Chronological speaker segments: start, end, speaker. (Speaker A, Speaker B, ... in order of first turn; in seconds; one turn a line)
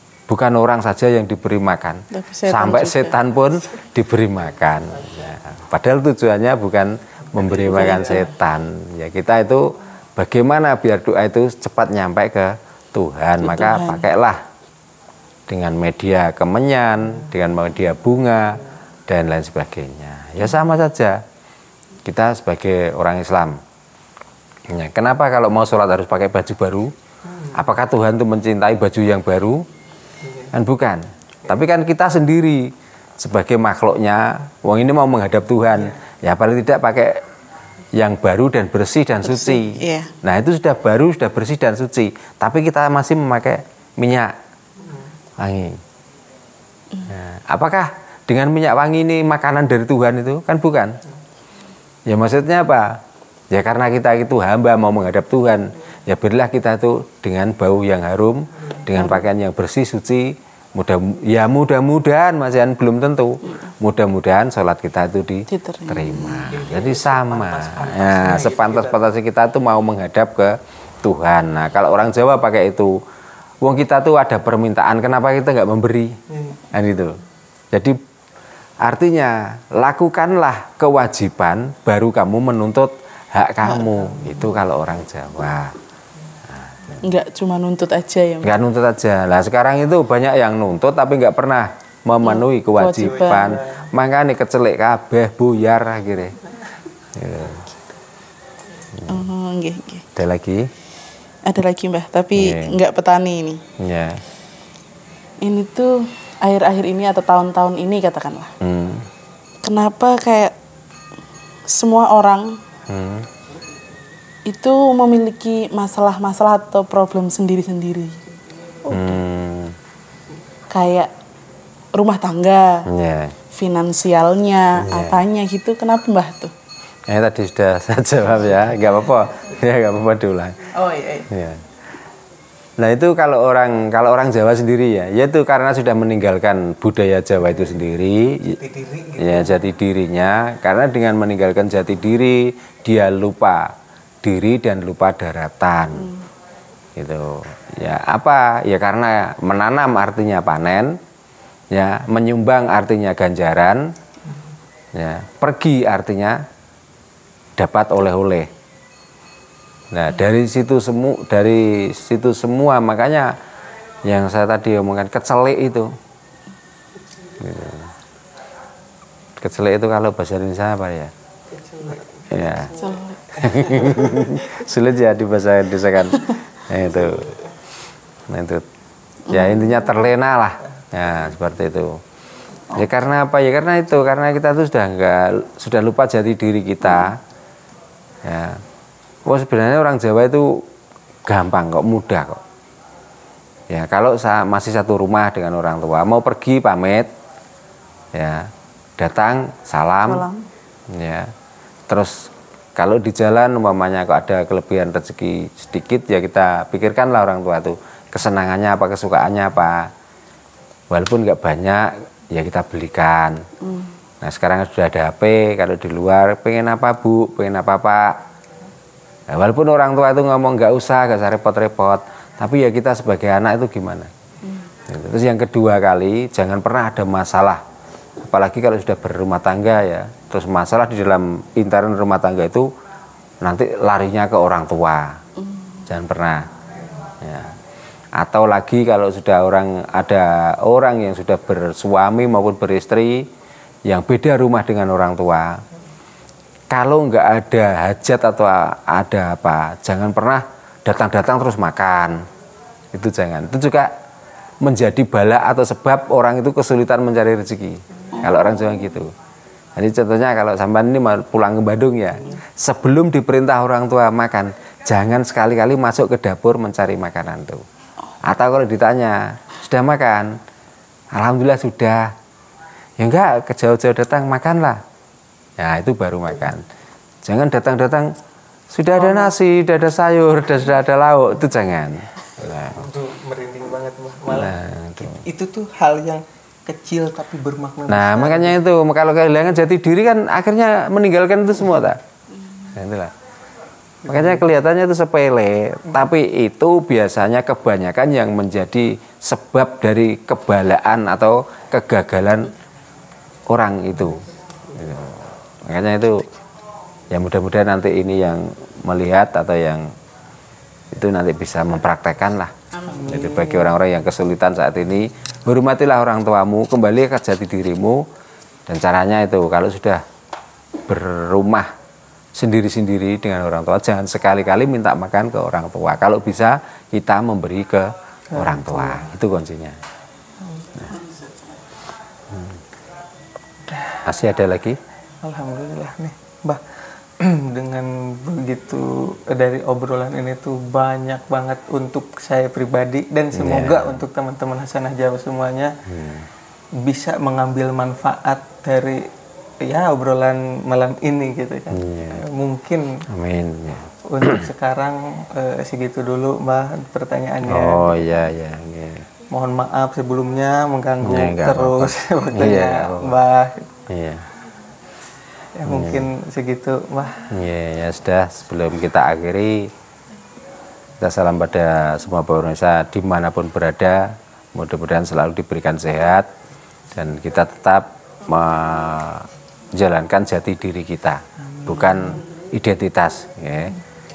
Speaker A: 0.3-14.4
Speaker B: 2.1-3.2
Speaker B: 7.6-8.3
Speaker B: 13.4-14.1
Speaker A: 15.5-21.2
Speaker A: 22.0-23.6
Speaker A: 24.7-29.7
Speaker A: 30.5-37.2
Speaker A: 38.0-44.4
Speaker B: 39.2-40.1
Speaker A: 45.4-45.8
Speaker A: 47.0-51.0
Speaker A: 52.1-73.0
Speaker B: 58.9-59.2
Speaker B: 65.5-66.6
Speaker C: 66.7-68.8
Speaker A: 73.6-76.2
Speaker A: 76.7-77.2
Speaker A: 77.7-78.0
Speaker A: 78.8-85.7
Speaker A: 86.5-87.1
Speaker B: 87.0-88.6
Speaker A: 88.4-96.4
Speaker B: 92.2-93.6
Speaker A: 97.1-97.7
Speaker A: 98.9-99.2
Speaker B: 99.1-100.0
Speaker A: 100.1-100.7
Speaker B: 101.4-103.6
Speaker A: 102.3-102.8
Speaker A: 103.8-104.2
Speaker B: 105.4-108.5
Speaker A: 108.6-109.1
Speaker B: 109.6-110.5
Speaker B: 111.7-112.6
Speaker A: 112.9-113.3
Speaker B: 114.5-118.2
Speaker B: 118.9-119.1
Speaker A: 118.9-119.7
Speaker B: 120.7-121.1
Speaker B: 121.9-122.8
Speaker A: 122.9-123.4
Speaker B: 123.5-126.5
Speaker A: 124.8-125.2
Speaker A: 127.1-130.7
Speaker B: 130.7-131.3
Speaker A: 131.3-131.6
Speaker A: 132.8-138.6
Speaker C: 138.7-139.2
Speaker A: 139.1-146.1
Speaker A: 146.9-151.0
Speaker A: 151.7-153.9
Speaker A: 154.9-156.4
Speaker A: 157.6-158.5
Speaker A: 159.9-163.4
Speaker A: 164.0-165.9
Speaker A: 167.4-167.9
Speaker A: 169.4-171.1
Speaker C: 171.8-172.4
Speaker A: 172.3-172.8
Speaker B: 172.8-174.0
Speaker A: 173.3-177.4
Speaker A: 178.3-178.7
Speaker B: 179.3-179.8
Speaker A: 179.3-182.0
Speaker A: 182.7-187.2
Speaker A: 188.2-188.6
Speaker A: 189.2-190.7
Speaker A: 191.2-192.4
Speaker A: 193.7-197.1
Speaker A: 198.1-200.2
Speaker B: 200.1-200.5
Speaker A: 200.9-201.3
Speaker A: 201.9-209.9
Speaker A: 210.9-213.4
Speaker A: 214.2-218.2
Speaker A: 219.3-224.1
Speaker A: 224.9-227.6
Speaker A: 228.2-232.7
Speaker A: 233.4-235.2
Speaker A: 235.9-236.5
Speaker A: 237.2-237.5
Speaker A: 238.2-243.3
Speaker A: 243.8-245.6
Speaker A: 246.7-252.2
Speaker A: 252.9-253.9
Speaker A: 254.6-259.1
Speaker A: 259.8-267.6
Speaker A: 268.2-270.4
Speaker A: 271.1-272.1
Speaker A: 273.0-274.8
Speaker A: 275.6-276.6
Speaker A: 277.2-278.1
Speaker A: 278.7-282.9
Speaker C: 282.6-284.6
Speaker A: 284.3-285.2
Speaker C: 285.2-288.6
Speaker A: 287.9-292.0
Speaker A: 292.7-293.1
Speaker A: 294.0-302.5
Speaker A: 303.5-306.3
Speaker A: 307.1-309.9
Speaker A: 310.9-318.1
Speaker C: 312.9-313.7
Speaker A: 318.7-320.0
Speaker A: 320.9-321.7
Speaker A: 322.3-329.8
Speaker C: 328.3-329.0
Speaker A: 334.0-334.8
Speaker C: 335.2-345.8
Speaker A: 343.3-344.0
Speaker A: 345.9-346.3
Speaker C: 346.8-353.0
Speaker A: 351.7-352.2
Speaker A: 353.1-354.5
Speaker C: 354.0-357.9
Speaker A: 357.5-359.1
Speaker C: 359.3-363.7
Speaker A: 361.0-363.1
Speaker A: 363.9-364.2
Speaker C: 365.6-367.3
Speaker A: 365.6-366.1
Speaker A: 367.3-369.7
Speaker A: 371.0-376.3
Speaker A: 376.9-383.8
Speaker C: 381.6-382.2